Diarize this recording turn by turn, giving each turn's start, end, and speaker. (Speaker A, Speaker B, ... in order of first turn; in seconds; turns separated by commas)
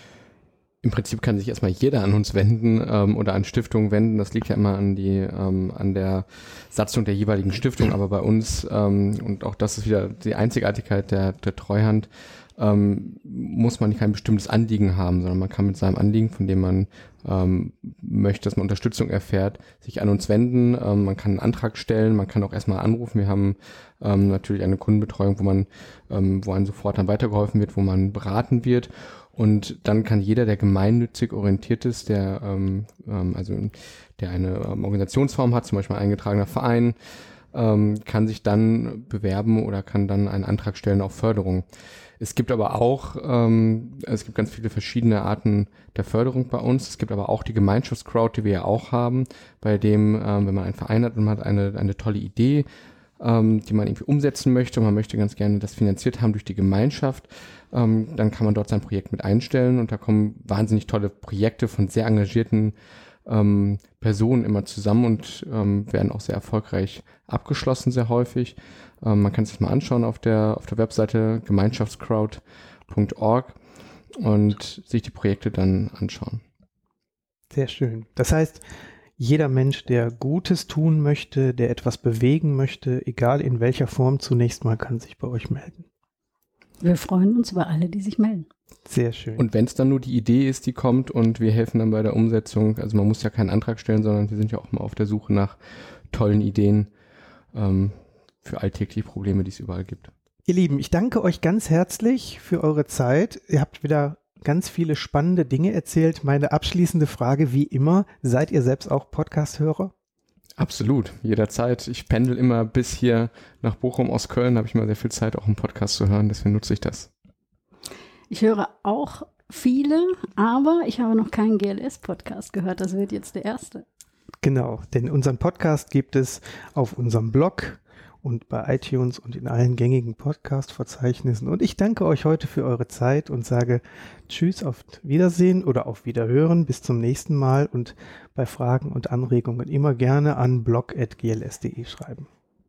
Speaker A: 0.8-36.9, Speaker A: 37.5-41.6, Speaker A: 42.2-52.6, Speaker A: 53.2-62.7, Speaker A: 63.2-73.5, Speaker A: 74.2-76.4, Speaker B: 77.5-78.6, Speaker B: 79.2-85.8, Speaker C: 86.8-88.5, Speaker B: 88.9-89.4, Speaker A: 89.4-95.5, Speaker A: 96.1-96.9, Speaker A: 97.5-100.1, Speaker B: 100.5-109.9, Speaker A: 110.6-117.1, Speaker C: 118.3-123.8, Speaker B: 124.4-142.3